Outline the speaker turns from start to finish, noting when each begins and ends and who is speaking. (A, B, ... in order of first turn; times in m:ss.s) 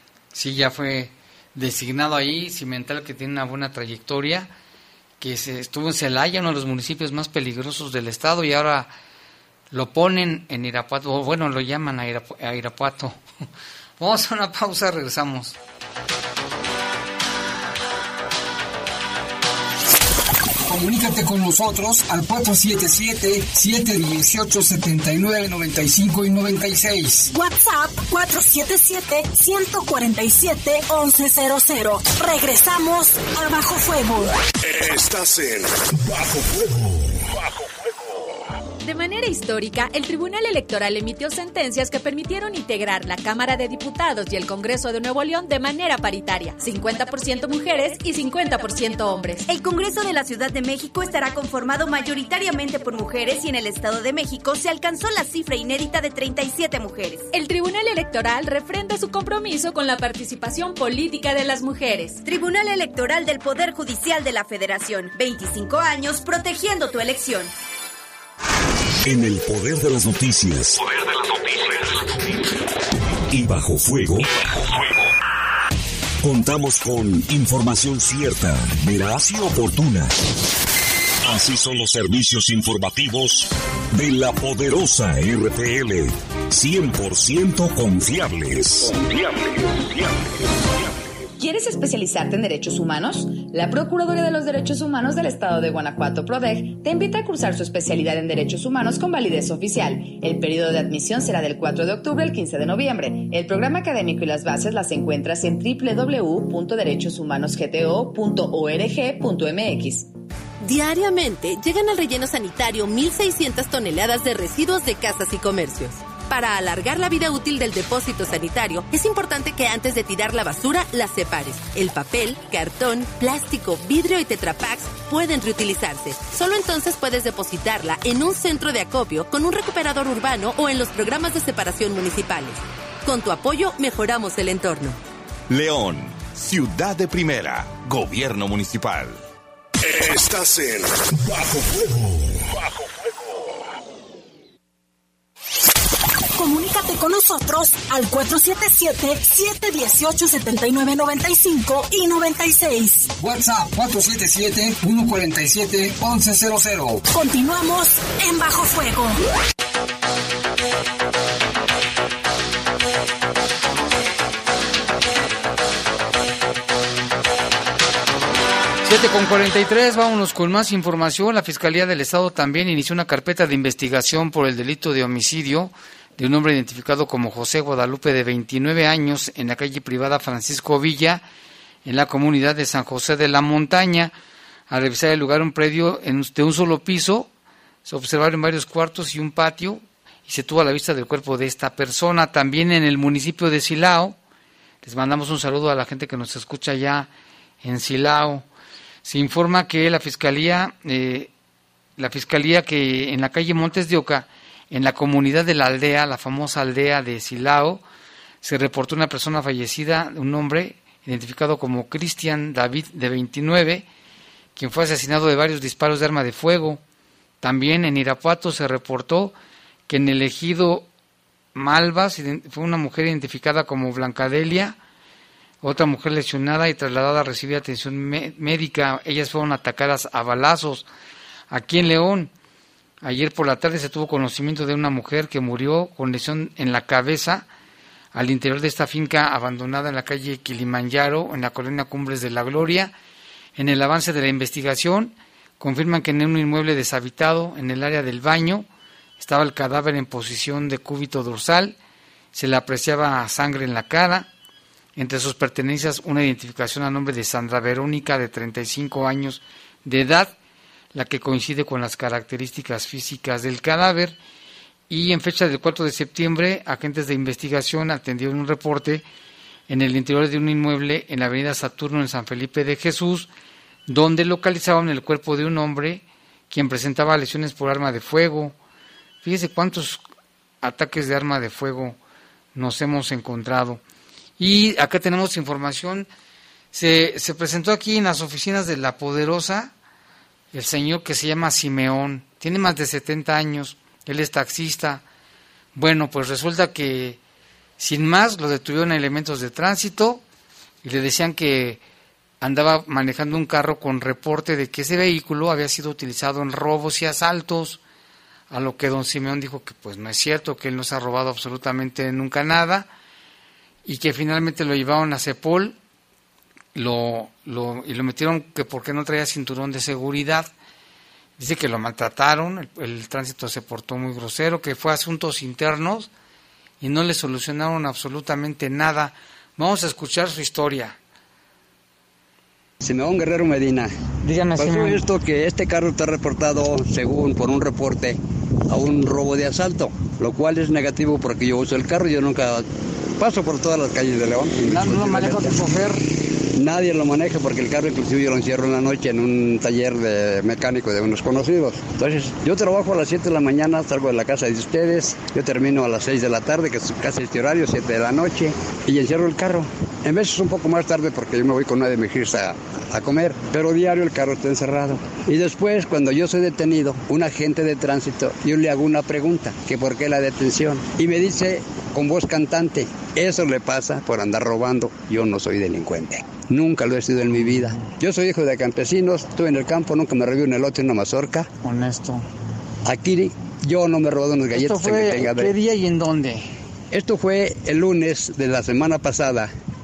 0:00.3-0:04.5 A
0:05.2-0:08.9 A
0:09.7-0:13.2 A
0:14.0-0:15.5 A
0:20.7-0:27.3 B
0:27.3-0:34.4 C
0:34.6-0:38.4 D
0:38.8-0:49.5 E
0:49.5-0:57.3 F
0:57.3-1:02.2 E
1:02.2-1:07.5 F
1:09.0-1:10.8 G
1:13.3-1:14.3 G
1:16.2-1:20.2 G
1:21.2-1:28.9 G
1:28.9-1:30.2 D
1:31.4-1:50.1 H
1:50.6-2:15.0 I
2:15.5-2:19.2 J
2:19.8-2:23.6 D
2:26.4-2:33.1 C
2:33.2-2:37.0 B
2:37.1-2:39.2 C
2:48.8-3:01.2 A
3:01.8-3:04.1 A
3:04.7-3:07.3 A
3:07.8-3:14.2 A
3:14.8-3:17.1 A
3:17.6-3:18.4 A
3:19.0-3:21.3 A
3:22.0-3:27.8 A
3:28.4-3:33.8 A
3:34.6-3:36.8 A
3:37.4-3:39.3 A
3:39.9-3:40.9 A
3:41.5-3:44.8 A
3:45.6-3:50.8 A
3:51.5-3:52.3 A
3:53.0-3:57.4 A
3:58.1-4:02.9 A
4:03.6-4:08.7 A
4:09.2-4:11.8 A
4:12.3-4:14.3 A
4:15.0-4:20.3 A
4:20.9-4:24.2 A
4:24.9-4:29.0 A
4:29.7-4:33.3 A
4:33.9-4:38.6 A
4:39.2-4:40.0 A
4:40.6-4:42.0 A
4:42.5-4:43.8 A
4:44.4-4:46.1 A
4:46.7-4:49.7 A
4:50.5-4:55.0 A
4:55.7-4:57.2 A
4:57.8-5:00.2 A
5:00.8-5:01.8 A
5:02.4-5:07.8 A
5:08.5-5:12.9 A
5:13.8-5:15.8 A
5:16.7-5:20.5 A
5:21.4-5:26.1 A
5:26.8-5:31.0 A
5:32.8-5:33.9 K
5:34.2-5:35.1 A
5:34.6-5:38.2 K
5:38.7-5:42.7 K
5:43.2-5:45.6 K
5:44.6-5:46.0 A
5:46.5-6:21.5 K
6:17.4-6:17.9 A
6:21.6-6:22.2 A
6:22.8-6:25.5 K
6:24.5-6:26.5 A
6:26.9-6:29.5 K